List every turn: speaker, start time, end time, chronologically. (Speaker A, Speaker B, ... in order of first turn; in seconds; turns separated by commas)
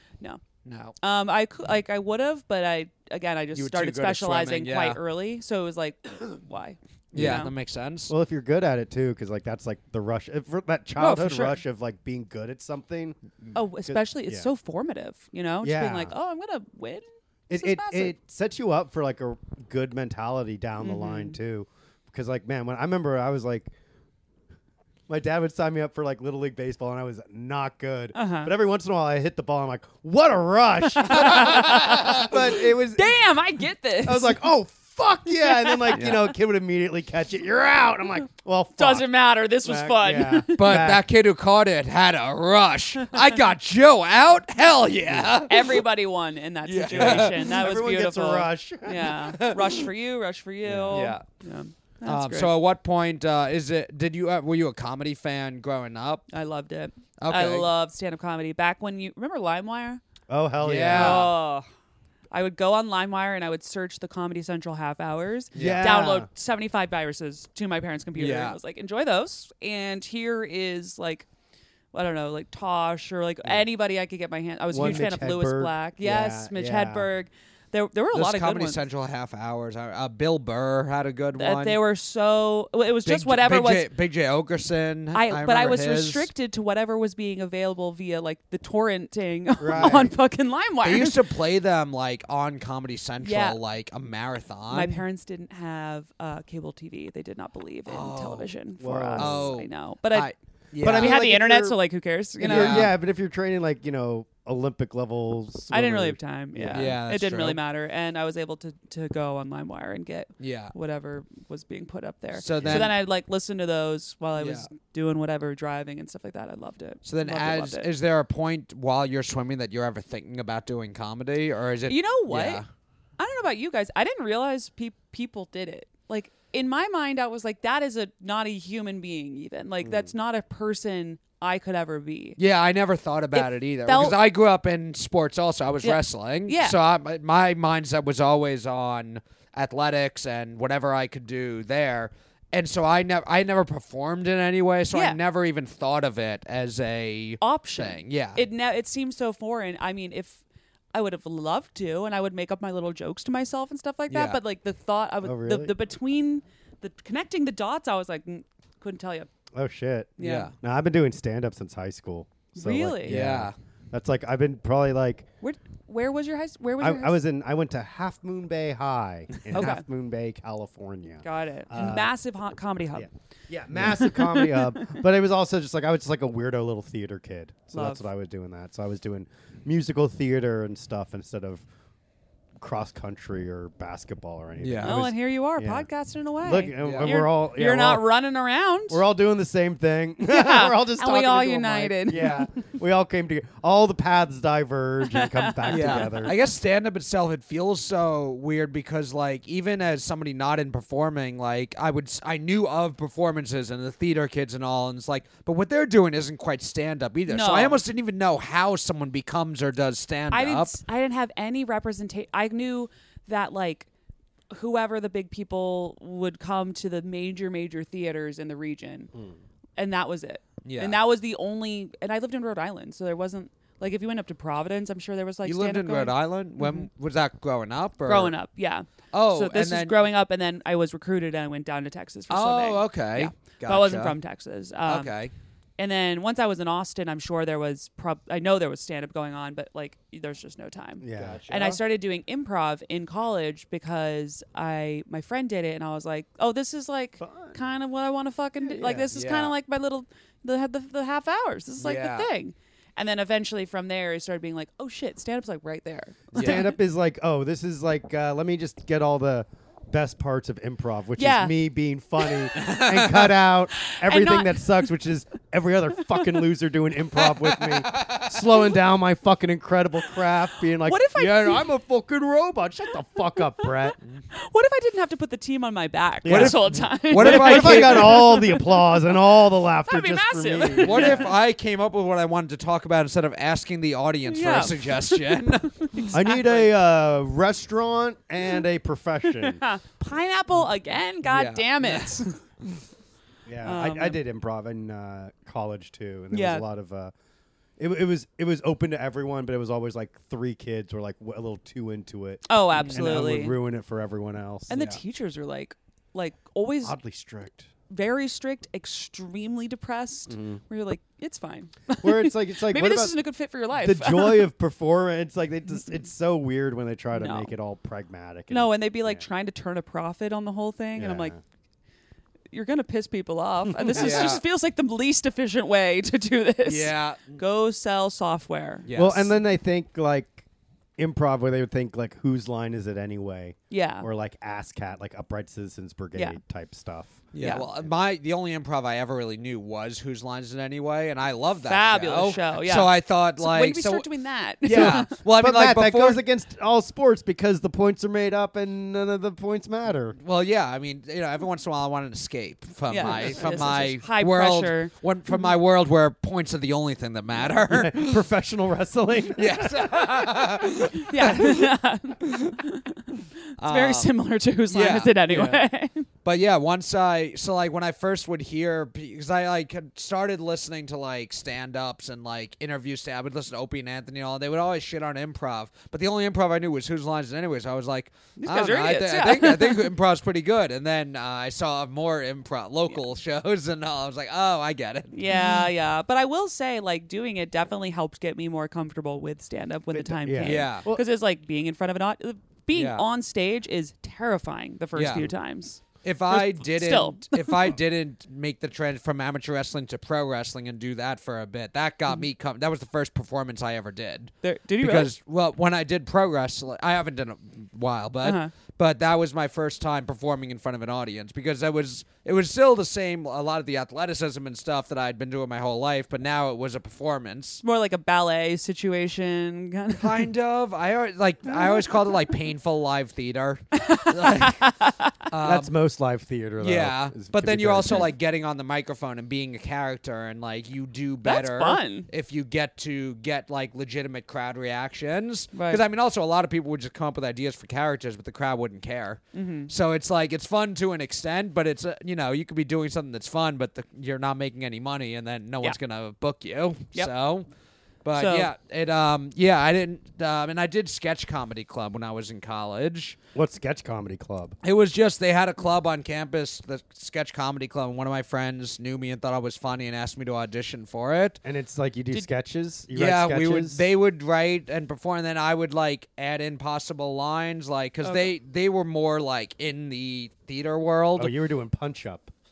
Speaker A: 0.7-1.0, Speaker B: 1.0-7.5, Speaker A: 3.5-5.0, Speaker A: 7.1-8.1, Speaker C: 7.1-7.5, Speaker C: 8.1-13.2, Speaker B: 11.0-11.6, Speaker B: 13.5-18.2, Speaker C: 13.8-14.5, Speaker C: 15.6-16.1, Speaker C: 17.5-23.7, Speaker B: 20.8-21.4, Speaker C: 25.1-33.2, Speaker B: 28.1-28.5, Speaker B: 31.0-34.5, Speaker A: 31.2-32.2, Speaker C: 34.0-39.1, Speaker B: 35.3-36.1, Speaker A: 35.9-36.2, Speaker B: 38.8-40.9, Speaker C: 39.6-41.0, Speaker A: 40.6-45.8, Speaker C: 45.1-45.5, Speaker B: 45.5-52.5, Speaker A: 46.6-47.6, Speaker C: 46.9-49.2, Speaker A: 49.1-49.8, Speaker C: 50.6-51.0, Speaker A: 50.9-51.2, Speaker A: 52.0-56.3, Speaker B: 56.3-60.0, Speaker A: 57.2-57.7, Speaker C: 60.3-61.3, Speaker A: 60.6-61.4, Speaker B: 60.9-61.7, Speaker B: 62.3-71.3, Speaker C: 65.5-66.3, Speaker A: 65.5-65.9, Speaker A: 68.2-68.6, Speaker B: 71.9-78.8, Speaker C: 74.7-77.1, Speaker A: 78.1-81.8, Speaker B: 81.4-83.9, Speaker A: 83.0-86.3, Speaker B: 85.1-91.2, Speaker C: 89.6-90.1, Speaker A: 90.8-95.0, Speaker B: 93.2-93.6, Speaker B: 94.7-102.9, Speaker A: 97.9-98.5, Speaker C: 98.8-99.5, Speaker A: 99.2-101.2, Speaker C: 100.8-101.8, Speaker C: 102.4-107.0, Speaker A: 102.4-103.0, Speaker B: 105.7-117.9, Speaker A: 106.7-107.6, Speaker A: 110.4-110.7, Speaker A: 112.3-113.0, Speaker C: 112.6-112.9, Speaker A: 114.4-114.7, Speaker A: 117.0-122.7, Speaker B: 121.9-122.6, Speaker B: 123.2-132.4, Speaker C: 129.8-130.1, Speaker A: 132.4-148.4, Speaker B: 133.3-134.2, Speaker B: 135.8-136.8, Speaker B: 144.9-145.2, Speaker B: 147.4-150.4, Speaker B: 150.9-159.3, Speaker A: 154.1-154.4, Speaker C: 155.2-155.7, Speaker C: 159.5-165.3, Speaker B: 160.2-160.5, Speaker A: 160.2-160.5, Speaker B: 162.6-163.2, Speaker A: 163.0-163.6, Speaker B: 165.4-167.2, Speaker C: 166.8-172.1, Speaker B: 169.5-169.8, Speaker B: 171.2-173.1, Speaker C: 172.9-181.7, Speaker B: 173.9-174.9, Speaker B: 177.7-178.0, Speaker C: 182.6-185.9, Speaker A: 184.6-185.0, Speaker B: 184.8-189.0, Speaker C: 186.4-188.1, Speaker A: 186.8-187.1, Speaker C: 188.9-196.3, Speaker B: 190.2-192.6, Speaker B: 195.1-196.4, Speaker A: 195.7-210.7, Speaker B: 207.3-207.8, Speaker B: 210.3-213.9, Speaker B: 214.5-219.1, Speaker B: 219.8-226.9, Speaker A: 220.7-221.0, Speaker A: 225.4-228.3, Speaker B: 228.1-235.1, Speaker A: 229.1-230.0, Speaker A: 232.3-234.2, Speaker A: 234.9-235.3, Speaker B: 235.8-256.8, Speaker C: 241.0-241.8, Speaker C: 247.2-247.6, Speaker C: 248.6-249.1, Speaker A: 249.1-249.5, Speaker A: 251.8-252.3, Speaker C: 256.3-274.0, Speaker A: 256.4-256.6, Speaker B: 261.2-261.6, Speaker B: 262.2-262.8, Speaker A: 262.6-263.3, Speaker B: 263.7-264.9, Speaker A: 267.4-268.4, Speaker B: 270.8-271.6, Speaker B: 273.6-279.2, Speaker C: 276.2-281.3, Speaker A: 276.2-278.3, Speaker B: 279.8-281.3, Speaker A: 280.8-285.9, Speaker B: 284.3-286.7, Speaker C: 286.1-289.6, Speaker B: 289.4-292.4, Speaker A: 291.2-292.8, Speaker C: 293.5-297.1, Speaker B: 293.6-294.2, Speaker B: 296.3-296.7, Speaker C: 297.8-305.0, Speaker B: 302.5-303.6, Speaker A: 302.8-303.3, Speaker B: 304.7-307.0, Speaker C: 306.8-307.7, Speaker B: 307.9-314.5, Speaker C: 310.3-310.6, Speaker C: 312.0-313.2, Speaker C: 313.8-319.2, Speaker B: 317.1-317.5, Speaker B: 318.5-321.3, Speaker C: 321.0-321.4, Speaker B: 322.5-328.9, Speaker C: 323.9-324.3, Speaker A: 323.9-324.4, Speaker A: 326.6-327.4, Speaker A: 328.9-329.3, Speaker C: 328.9-330.5, Speaker C: 331.0-337.9, Speaker B: 333.7-334.1, Speaker A: 337.3-344.1, Speaker B: 337.4-337.7, Speaker B: 341.7-345.1, Speaker A: 344.6-346.2, Speaker C: 344.7-350.2, Speaker A: 350.2-358.2, Speaker B: 352.9-354.9, Speaker C: 353.1-353.5, Speaker C: 357.4-360.7, Speaker A: 359.4-361.7, Speaker B: 360.9-366.1, Speaker A: 363.6-364.1, Speaker A: 364.7-365.6, Speaker A: 366.2-385.2, Speaker B: 378.4-379.9, Speaker B: 385.1-397.7, Speaker C: 389.9-391.1, Speaker A: 390.4-390.9, Speaker A: 392.7-393.0, Speaker A: 394.9-395.3, Speaker A: 396.0-417.6, Speaker B: 404.4-405.1, Speaker B: 408.2-408.5, Speaker B: 417.6-420.3, Speaker A: 420.0-424.8, Speaker B: 423.8-425.2, Speaker A: 425.3-425.7, Speaker C: 425.4-428.1, Speaker A: 426.6-447.5, Speaker B: 431.2-432.1, Speaker B: 435.5-435.8, Speaker B: 439.3-439.7, Speaker A: 448.0-453.2, Speaker B: 448.1-448.5, Speaker C: 453.4-454.6, Speaker A: 454.6-461.4, Speaker C: 461.4-463.8, Speaker A: 462.9-471.3, Speaker B: 468.0-468.3, Speaker C: 471.2-472.3